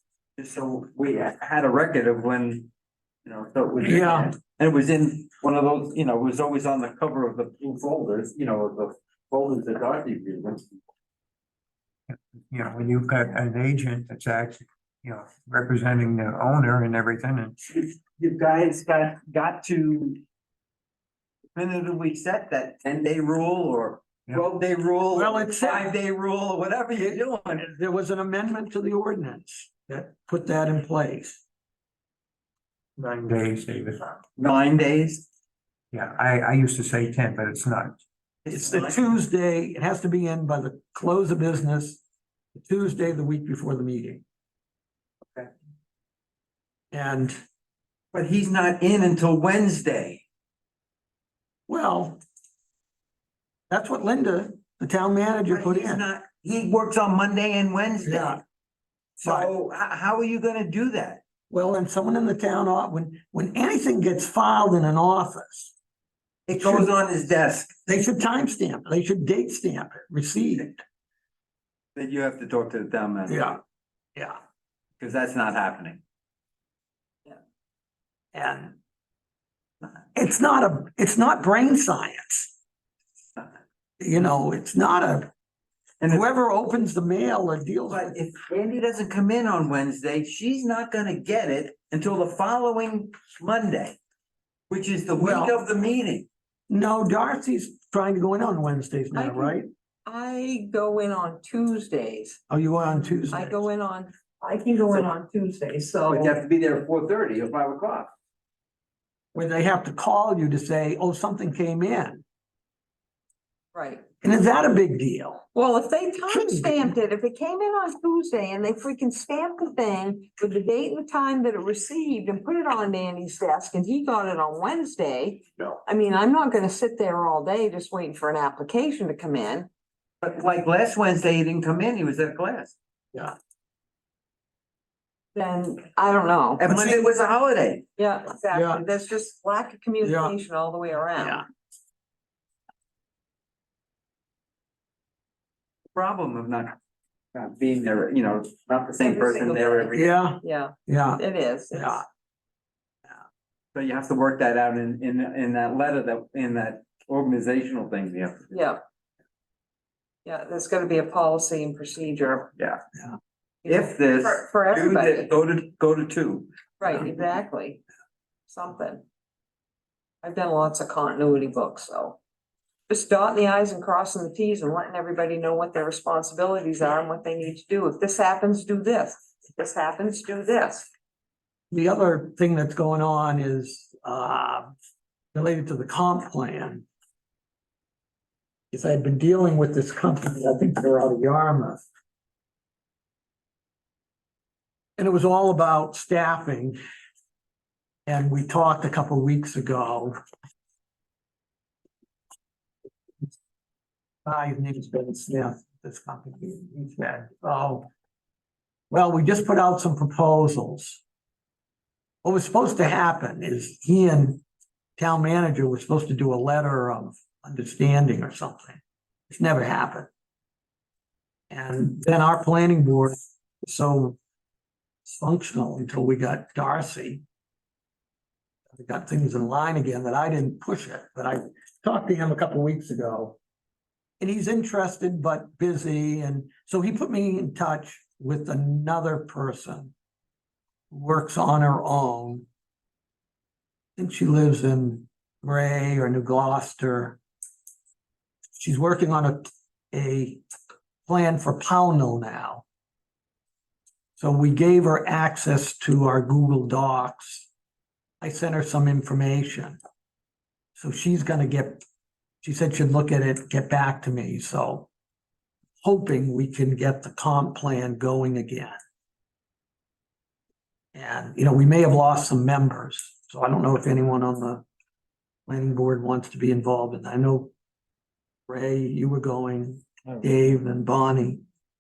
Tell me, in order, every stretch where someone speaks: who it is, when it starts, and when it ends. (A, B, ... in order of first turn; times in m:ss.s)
0:00.4-0:02.7 A
0:03.2-0:10.7 A
0:03.8-0:04.3 B
0:12.1-0:17.6 C
0:17.8-0:20.2 A
0:21.5-0:27.6 A
0:25.1-0:25.9 B
0:27.0-0:31.4 B
0:33.0-0:34.0 C
0:34.4-0:35.2 A
0:35.9-0:38.0 C
0:38.4-0:39.0 A
0:38.5-0:42.0 B
0:42.5-0:44.2 B
0:46.9-0:47.4 B
0:48.1-0:50.2 A
0:51.7-0:52.2 B
0:53.7-0:56.0 B
0:55.5-0:58.4 A
0:58.0-0:58.4 B
0:59.2-1:01.2 A
0:59.2-0:59.5 B
1:01.5-1:05.7 B
1:06.5-1:07.7 A
1:06.6-1:06.9 B
1:07.9-1:10.8 B
1:12.0-1:13.6 A
1:13.3-1:13.6 B
1:15.0-1:16.0 A
1:18.3-1:18.8 B
1:20.1-1:22.5 B
1:24.0-1:25.3 B
1:26.0-1:26.2 A
1:26.1-1:28.1 B
1:27.9-1:34.0 A
1:34.7-1:36.2 A
1:35.2-1:35.6 B
1:36.7-1:39.7 B
1:39.1-1:42.4 D
1:42.5-1:43.6 B
1:43.3-1:46.4 D
1:46.1-1:48.1 A
1:49.3-1:52.2 B
1:53.7-1:54.0 D
1:54.2-1:55.4 B
1:55.5-2:09.7 D
1:56.3-1:56.9 B
2:10.2-2:12.7 A
2:15.3-2:16.7 D
2:16.6-2:17.8 A
2:16.7-2:17.0 B
2:18.0-2:21.4 D
2:18.5-2:18.8 B
2:20.0-2:20.4 B
2:21.2-2:21.4 B
2:25.9-2:26.7 A
2:27.3-2:30.1 A
2:29.0-2:32.0 D
2:29.9-2:31.2 B
2:31.7-2:32.0 B
2:33.7-2:38.5 A
2:38.5-2:38.8 D
2:40.2-2:42.5 D
2:43.6-2:45.3 D
2:43.6-2:46.5 A
2:46.8-2:47.8 D
2:48.5-2:49.0 D
2:50.2-2:52.2 D
2:52.9-3:00.9 D
3:01.7-3:04.7 B
3:05.3-3:06.8 B
3:08.7-3:11.8 B
3:15.0-3:16.8 B
3:18.0-3:20.2 B
3:24.2-3:27.9 B
3:28.9-3:31.0 B
3:32.2-3:34.4 B
3:35.0-3:40.1 B
3:41.5-3:44.2 B
3:45.0-3:47.2 B
3:48.7-3:53.4 B
3:54.2-3:59.9 B
4:00.9-4:02.4 B
4:04.0-4:07.2 B
4:08.6-4:10.4 B
4:11.1-4:12.6 B
4:14.2-4:17.5 B
4:18.2-4:19.8 B
4:20.8-4:21.8 B
4:22.4-4:24.9 B
4:25.8-4:28.8 B
4:30.9-4:34.6 B
4:35.5-4:37.5 B
4:38.5-4:41.4 B